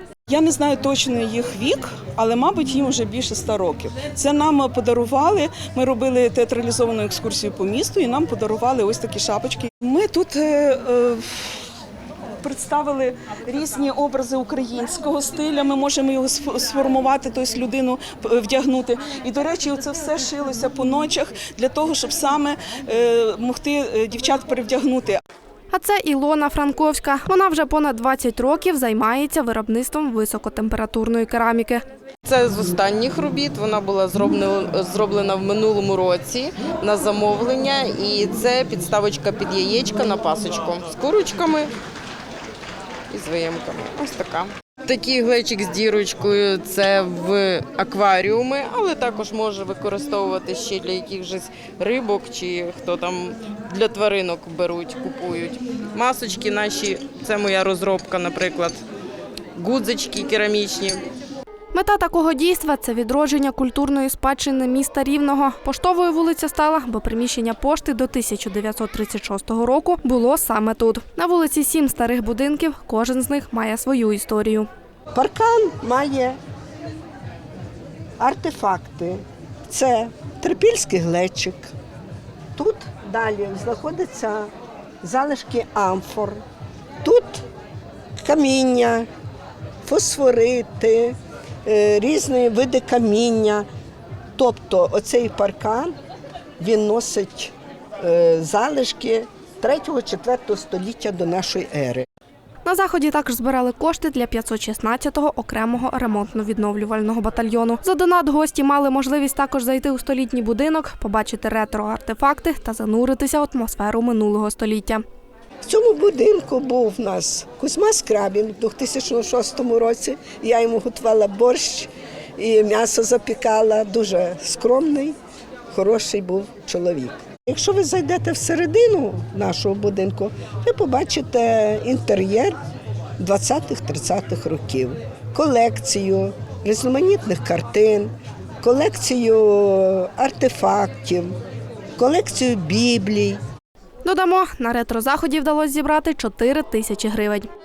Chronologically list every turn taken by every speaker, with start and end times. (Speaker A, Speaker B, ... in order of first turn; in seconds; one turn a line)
Speaker A: 0.3-11.7
Speaker A: 12.4-25.2
Speaker B: 25.7-31.8
Speaker C: 32.2-41.7
Speaker C: 43.1-58.8
Speaker C: 59.5-61.0
Speaker B: 61.7-74.7
Speaker D: 75.1-76.4
Speaker D: 78.2-81.7
Speaker D: 82.6-84.5
Speaker D: 85.0-86.4
Speaker D: 87.0-87.4
Speaker D: 88.2-89.1
Speaker D: 89.8-93.7
Speaker D: 94.3-96.0
Speaker D: 96.6-102.1
Speaker B: 102.7-115.0
Speaker D: 115.6-125.2
Speaker D: 125.7-132.6
Speaker D: 133.2-141.4
Speaker D: 142.0-143.4
Speaker B: 144.0-147.5